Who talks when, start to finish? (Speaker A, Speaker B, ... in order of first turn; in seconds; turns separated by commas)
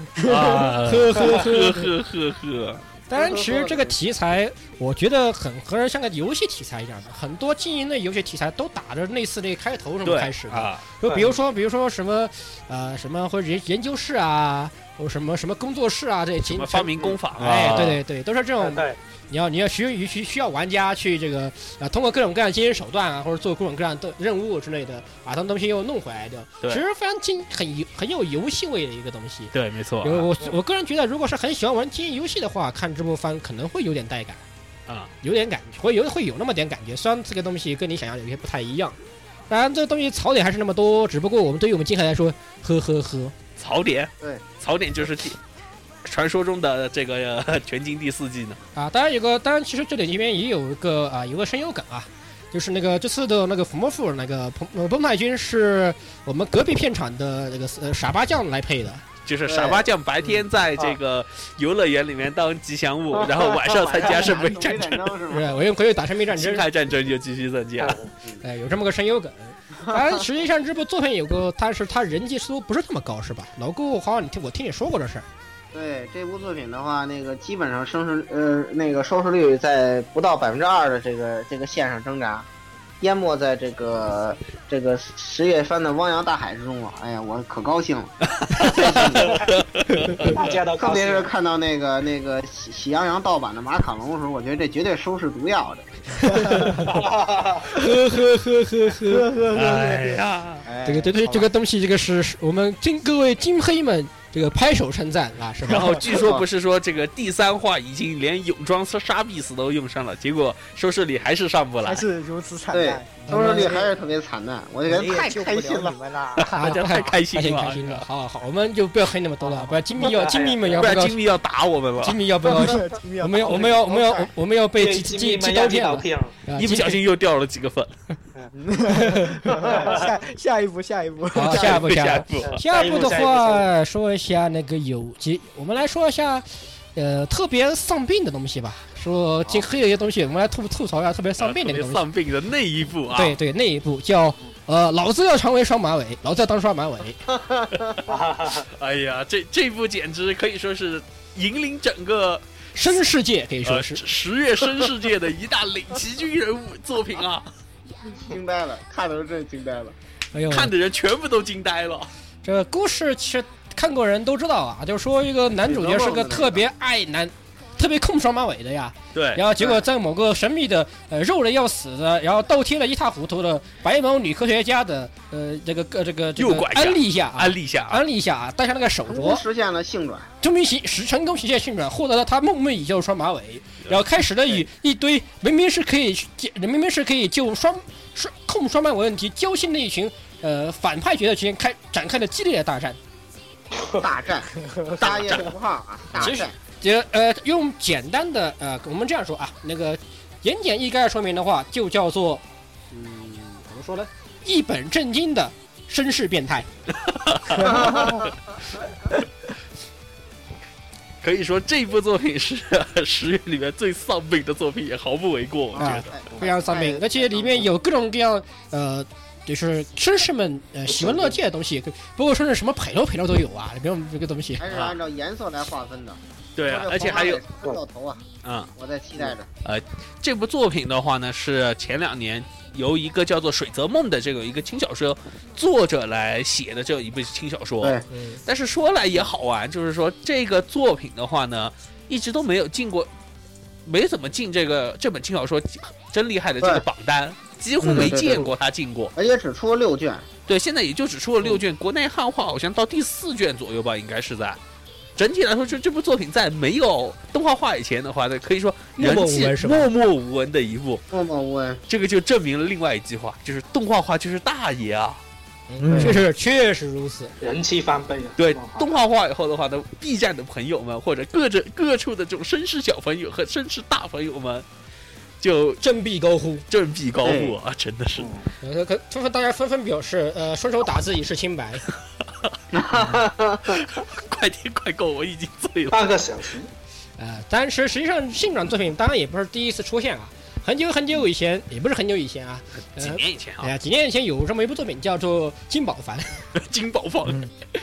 Speaker A: 0.2-0.7, Speaker B: 0.2-2.8, Speaker C: 0.8-1.9, Speaker C: 3.1-34.4, Speaker D: 3.1-3.9, Speaker B: 10.0-10.8, Speaker E: 11.1-11.4, Speaker B: 16.5-18.0, Speaker E: 18.6-19.0, Speaker B: 29.5-30.3, Speaker C: 35.2-39.0, Speaker C: 39.5-43.3, Speaker B: 43.6-45.4, Speaker B: 46.0-48.6, Speaker C: 48.7-59.0, Speaker B: 59.2-65.1, Speaker D: 59.5-59.9, Speaker D: 63.4-65.6, Speaker C: 65.3-66.7, Speaker B: 66.3-68.0, Speaker E: 67.8-68.1, Speaker C: 68.4-75.2, Speaker D: 75.7-82.5, Speaker D: 83.0-89.5, Speaker B: 88.4-90.3, Speaker E: 90.2-91.3, Speaker D: 90.8-95.9, Speaker C: 96.3-96.9, Speaker A: 96.3-96.7, Speaker E: 96.8-97.7, Speaker C: 97.7-99.2, Speaker A: 99.0-101.5, Speaker B: 99.5-100.7, Speaker C: 100.8-105.9, Speaker B: 105.7-112.0, Speaker D: 106.1-106.4, Speaker A: 111.8-113.9, Speaker D: 112.7-116.0, Speaker C: 113.3-113.8, Speaker A: 114.9-116.7, Speaker B: 116.4-118.0, Speaker C: 116.5-121.2, Speaker E: 120.0-120.9, Speaker B: 120.8-122.2, Speaker C: 122.0-127.0, Speaker A: 122.5-124.0, Speaker D: 123.8-124.3, Speaker E: 124.8-126.3, Speaker B: 126.5-127.9, Speaker A: 128.5-131.8, Speaker C: 129.0-129.3, Speaker E: 129.5-130.1, Speaker C: 131.3-142.0, Speaker B: 131.5-132.6, Speaker E: 132.4-133.7, Speaker B: 141.4-143.4, Speaker C: 143.1-147.2, Speaker D: 147.3-147.9, Speaker E: 148.1-148.7, Speaker B: 148.7-153.0, Speaker C: 152.8-154.0, Speaker B: 153.6-157.5, Speaker D: 158.2-159.9, Speaker C: 160.3-160.7, Speaker B: 160.5-162.1, Speaker C: 162.4-179.4, Speaker D: 165.6-166.6, Speaker B: 169.1-169.4, Speaker B: 176.4-178.0, Speaker D: 179.1-180.3, Speaker C: 180.4-193.0, Speaker E: 193.8-194.0, Speaker D: 194.0-196.6, Speaker A: 194.6-195.2, Speaker C: 196.2-206.7, Speaker B: 207.0-208.2, Speaker D: 207.8-208.1, Speaker B: 211.2-216.1, Speaker D: 215.7-217.7, Speaker C: 215.8-224.6, Speaker E: 220.9-221.3, Speaker D: 224.6-228.2, Speaker B: 224.7-225.0, Speaker B: 226.6-227.4, Speaker B: 228.4-228.7, Speaker D: 228.8-229.5, Speaker B: 229.6-243.1, Speaker B: 243.8-249.1, Speaker D: 247.8-248.5, Speaker D: 249.2-250.2, Speaker B: 250.5-254.6, Speaker B: 255.2-261.0, Speaker C: 259.0-259.9, Speaker D: 261.1-261.8, Speaker B: 261.9-265.2, Speaker C: 265.7-267.3, Speaker A: 265.8-266.2, Speaker D: 265.9-266.2, Speaker E: 267.4-268.8, Speaker B: 268.4-274.6, Speaker B: 275.4-275.8, Speaker C: 275.8-276.6, Speaker B: 276.7-278.3, Speaker D: 277.2-277.5, Speaker E: 278.2-278.4, Speaker C: 278.6-281.8, Speaker D: 282.7-283.8, Speaker B: 283.7-286.1, Speaker E: 285.9-286.7, Speaker C: 287.2-296.4, Speaker B: 293.0-293.7, Speaker B: 296.6-297.4, Speaker A: 297.2-297.5